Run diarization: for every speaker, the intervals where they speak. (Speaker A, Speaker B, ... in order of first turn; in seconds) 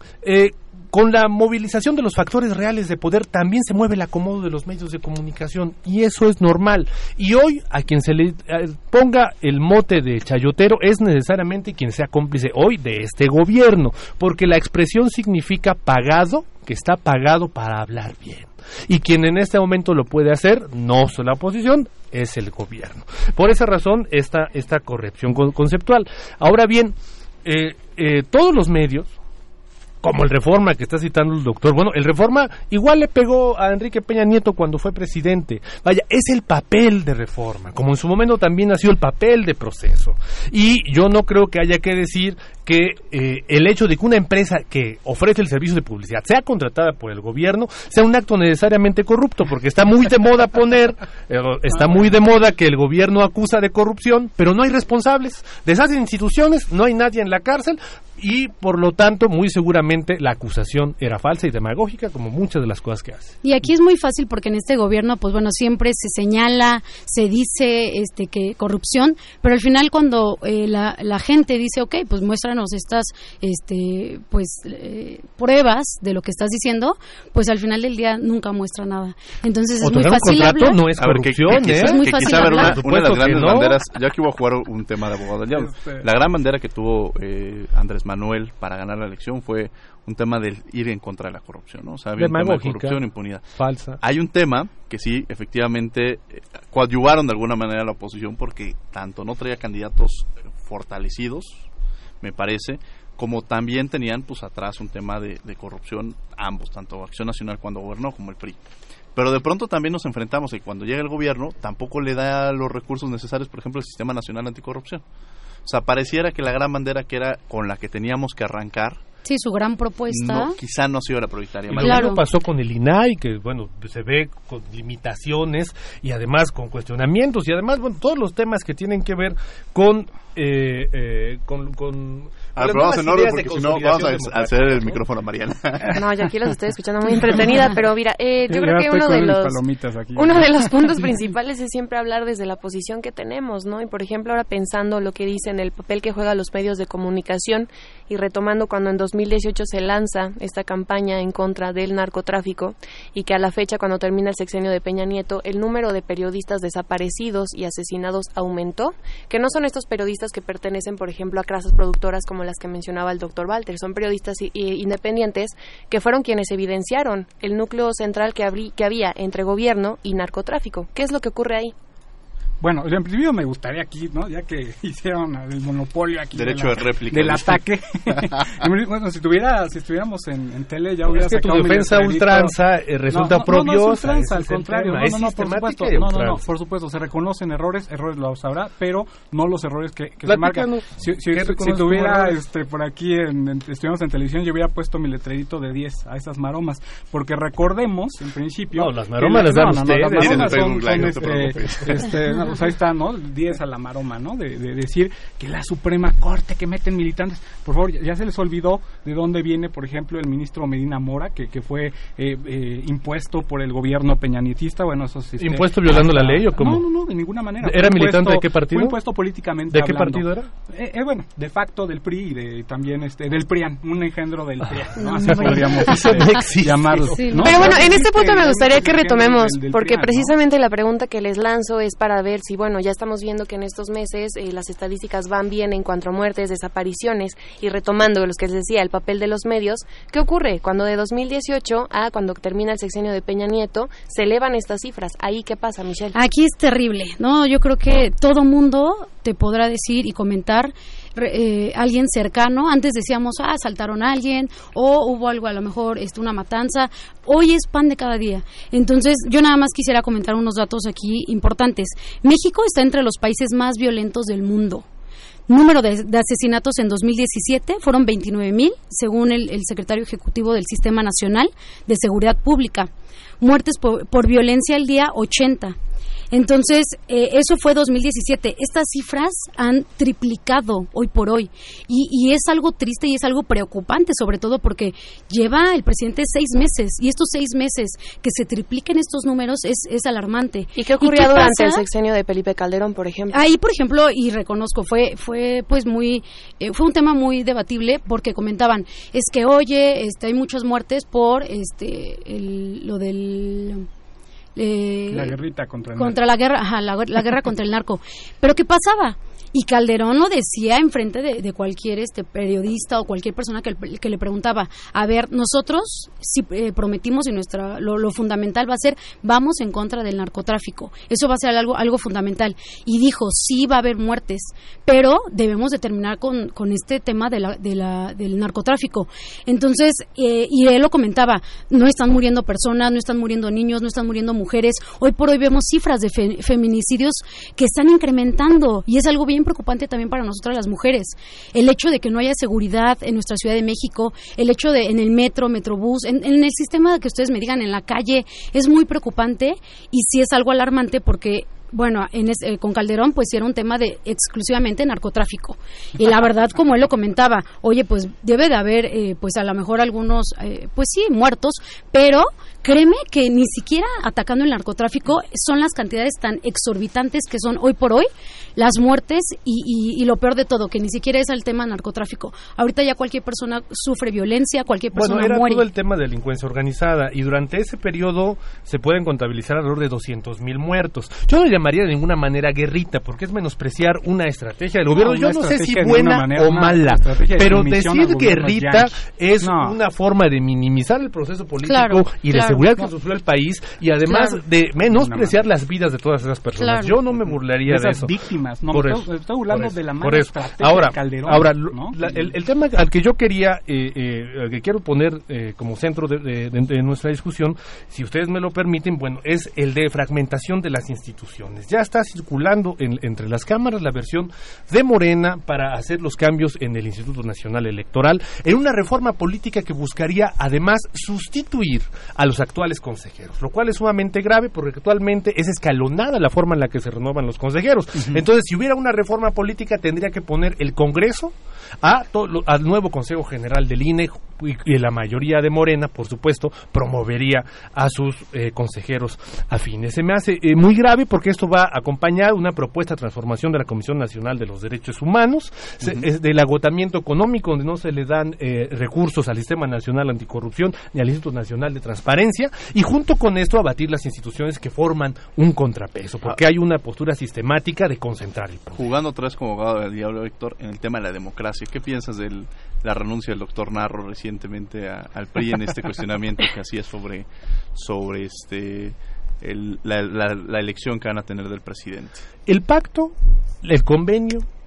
Speaker A: 0.2-29.1, 30.0-63.3, 79.8-83.8, 92.2-94.0, 121.7-135.0, 181.1-186.4, 190.2-192.4, 198.7-200.7, 215.4-216.8, 217.6-219.0, 219.7-220.5, 225.2-227.7, 374.9-398.1, 398.7-458.8, 472.5-474.5
Speaker B: 63.4-80.8, 81.7-82.8, 119.2-120.5, 121.8-122.2, 225.0-226.1, 227.1-227.6, 246.1-264.8, 265.5-275.8, 276.3-291.8, 293.3-303.9, 304.6-305.4, 305.9-375.6, 391.6-392.6, 396.6-397.0
Speaker C: 81.0-93.5, 94.0-101.7, 102.2-108.6, 109.2-115.0, 115.6-119.0, 120.1-122.1, 132.6-135.9, 176.3-177.6, 200.1-202.2, 458.8-472.2
Speaker D: 85.5-86.0, 137.1-137.6, 138.5-141.0, 172.6-182.6, 183.1-230.3, 305.1-306.2, 384.9-389.8, 394.8-395.4, 397.6-402.3
Speaker E: 135.9-139.6, 140.1-171.7, 227.4-246.2, 290.8-293.4